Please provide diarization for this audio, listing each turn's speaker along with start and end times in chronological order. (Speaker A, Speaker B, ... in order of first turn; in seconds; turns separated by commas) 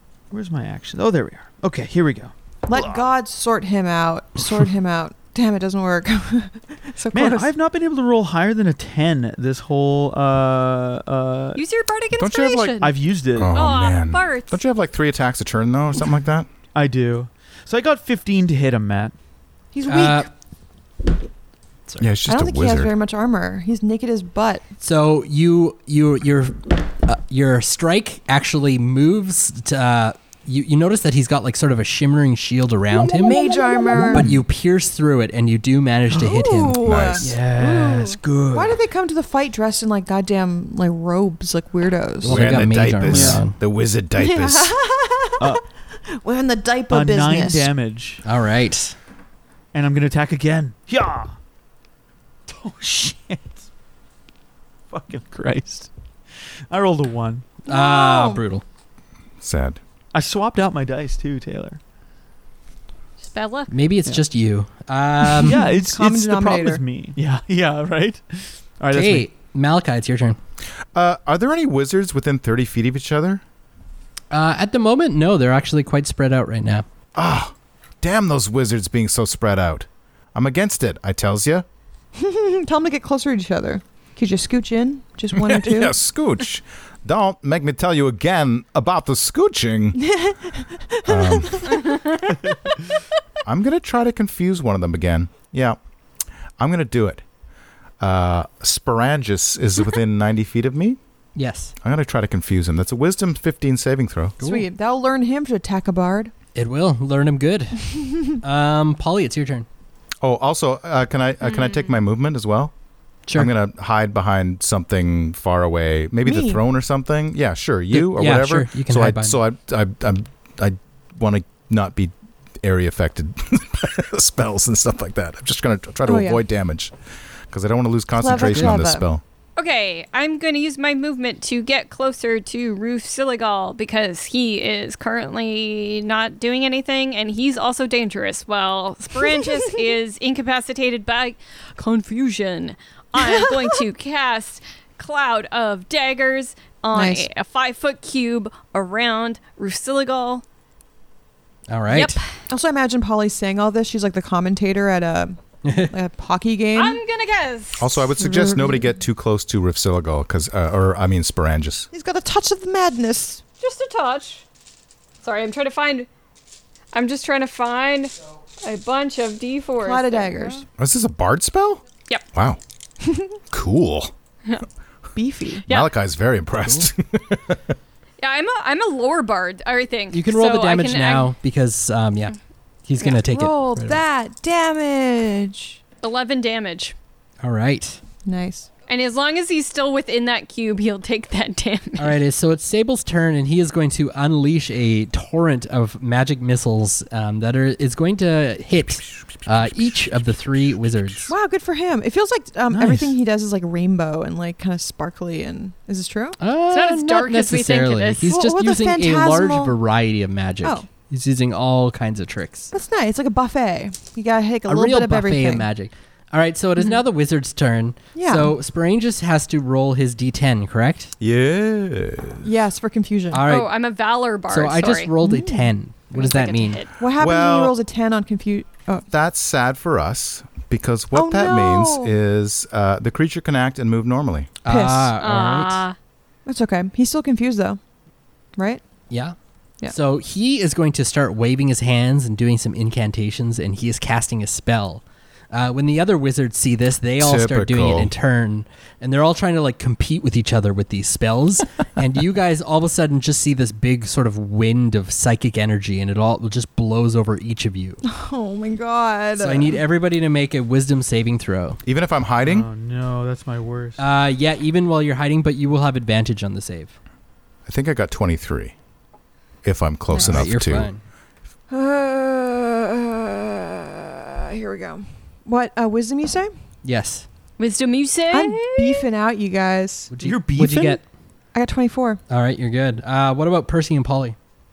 Speaker A: 0.3-3.0, Speaker B: 2.7-7.5, Speaker A: 7.1-11.6, Speaker C: 11.6-12.9, Speaker D: 12.2-12.8, Speaker A: 12.8-13.5, Speaker D: 13.3-16.5, Speaker C: 13.5-14.6, Speaker A: 16.7-19.1, Speaker B: 19.7-20.3, Speaker E: 19.9-20.3, Speaker D: 22.0-22.9, Speaker B: 22.3-24.6, Speaker E: 24.8-36.8, Speaker B: 33.0-34.3, Speaker A: 33.9-34.4, Speaker B: 36.1-42.6, Speaker D: 36.8-37.3, Speaker A: 37.2-38.8, Speaker E: 42.2-43.6, Speaker D: 42.2-44.8, Speaker A: 43.1-43.4, Speaker B: 44.2-47.7, Speaker A: 46.9-48.2, Speaker E: 48.2-48.9, Speaker A: 49.7-51.3, Speaker A: 52.5-53.7, Speaker A: 54.9-55.9, Speaker A: 56.7-57.5, Speaker E: 57.6-58.6, Speaker B: 57.7-58.4, Speaker D: 59.4-59.8, Speaker A: 60.1-61.8, Speaker C: 63.2-63.7, Speaker E: 63.7-65.6, Speaker A: 65.2-69.3, Speaker B: 65.5-66.8, Speaker E: 68.9-70.4, Speaker D: 70.9-73.4, Speaker E: 74.3-76.8, Speaker D: 77.1-81.6, Speaker B: 82.1-85.9, Speaker D: 85.3-90.0, Speaker B: 90.0-92.1, Speaker D: 91.0-91.7, Speaker A: 92.3-92.8, Speaker D: 93.4-95.8, Speaker D: 96.6-97.2, Speaker D: 98.0-101.0, Speaker E: 101.3-101.7, Speaker D: 101.8-104.4, Speaker E: 104.4-104.7, Speaker B: 104.4-106.3, Speaker E: 106.5-109.7, Speaker D: 110.2-112.7, Speaker C: 111.4-111.9, Speaker E: 113.3-113.5, Speaker D: 113.3-126.9, Speaker B: 116.2-116.6, Speaker E: 117.9-119.4, Speaker B: 126.1-126.4, Speaker D: 127.5-129.2, Speaker B: 128.2-129.1, Speaker E: 128.4-128.8, Speaker C: 129.6-150.4, Speaker B: 143.2-143.6, Speaker B: 146.9-147.3, Speaker E: 151.7-152.2, Speaker C: 151.9-152.2, Speaker B: 152.5-157.0, Speaker E: 155.6-155.9, Speaker C: 156.7-157.9, Speaker D: 157.8-161.9, Speaker B: 158.2-158.9, Speaker B: 161.9-163.4, Speaker C: 163.6-164.4, Speaker C: 165.2-166.1, Speaker C: 166.9-170.6, Speaker B: 169.8-170.6, Speaker D: 170.8-171.8, Speaker D: 172.3-172.6, Speaker B: 173.0-173.3, Speaker D: 173.5-174.1, Speaker B: 175.1-175.6, Speaker C: 175.6-175.9, Speaker D: 175.7-177.7, Speaker E: 176.6-176.9, Speaker C: 178.2-181.3, Speaker E: 180.1-182.3, Speaker E: 182.8-184.0, Speaker B: 183.2-185.8, Speaker C: 186.0-186.9, Speaker E: 187.4-188.0, Speaker B: 188.2-188.7, Speaker C: 188.9-192.2, Speaker E: 192.0-201.3, Speaker B: 201.3-206.4, Speaker A: 202.7-203.2, Speaker E: 206.4-212.7, Speaker C: 206.7-208.2, Speaker B: 208.2-209.8, Speaker B: 212.7-215.7, Speaker E: 214.7-221.1, Speaker B: 218.2-218.5, Speaker D: 221.2-222.5, Speaker B: 222.4-223.4, Speaker E: 223.3-223.7, Speaker C: 223.5-225.1, Speaker E: 224.5-226.8, Speaker B: 225.2-225.7, Speaker C: 226.1-226.9, Speaker B: 227.0-229.1, Speaker D: 227.2-227.7, Speaker D: 229.1-234.5, Speaker B: 231.1-232.1, Speaker E: 234.6-235.8, Speaker B: 234.7-235.1, Speaker C: 235.2-235.9, Speaker B: 236.4-237.8, Speaker B: 238.6-238.8, Speaker E: 239.1-239.3, Speaker E: 239.9-258.0, Speaker D: 247.2-248.1, Speaker B: 258.0-259.8, Speaker E: 259.4-261.8, Speaker D: 261.9-262.7, Speaker A: 262.4-264.0, Speaker E: 264.0-266.9, Speaker D: 267.6-268.7, Speaker D: 269.6-270.9, Speaker E: 270.1-271.0, Speaker B: 271.7-276.5, Speaker E: 276.8-277.2, Speaker C: 277.6-279.1, Speaker B: 278.3-280.1, Speaker E: 280.1-281.0, Speaker A: 280.2-281.0, Speaker B: 281.5-282.2, Speaker E: 282.3-284.4